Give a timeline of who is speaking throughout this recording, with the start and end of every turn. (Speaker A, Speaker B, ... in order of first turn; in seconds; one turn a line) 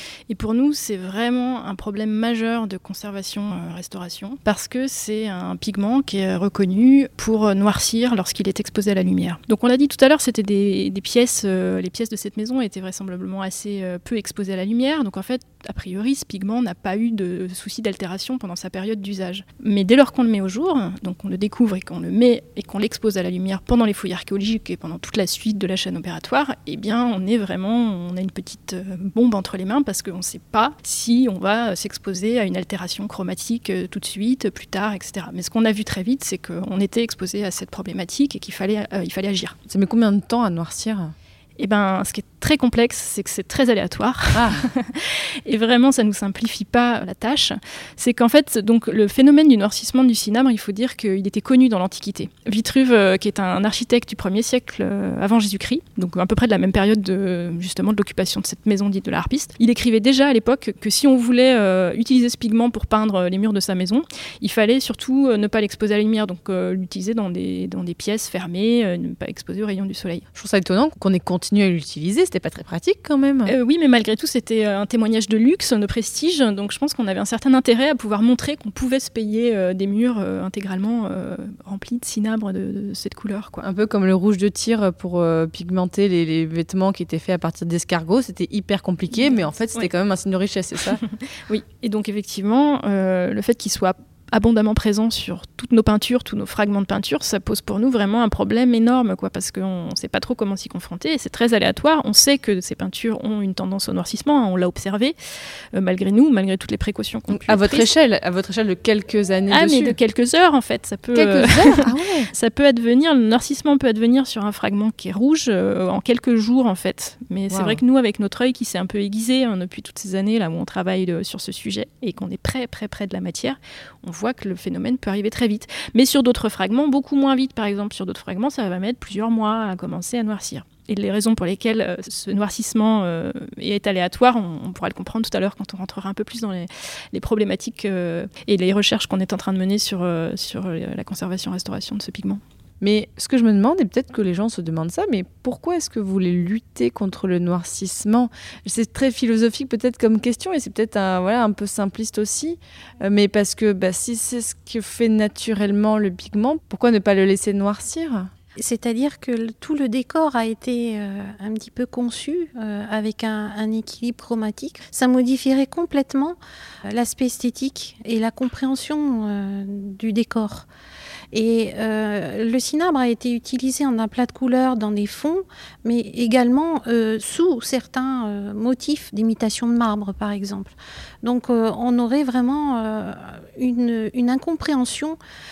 Speaker A: 0.3-39.5
Speaker B: 39.7-41.1
Speaker A: 41.6-70.3
Speaker B: 44.3-44.7
Speaker B: 70.3-73.5
Speaker A: 73.5-83.6
Speaker B: 83.6-91.0
Speaker A: 89.2-89.9
Speaker A: 90.9-105.2
Speaker A: 105.7-107.9
Speaker B: 107.3-110.0
Speaker A: 109.5-142.4
Speaker B: 111.1-112.3
Speaker B: 117.5-117.8
Speaker B: 142.8-158.3
Speaker C: 158.6-170.7
Speaker C: 171.3-185.2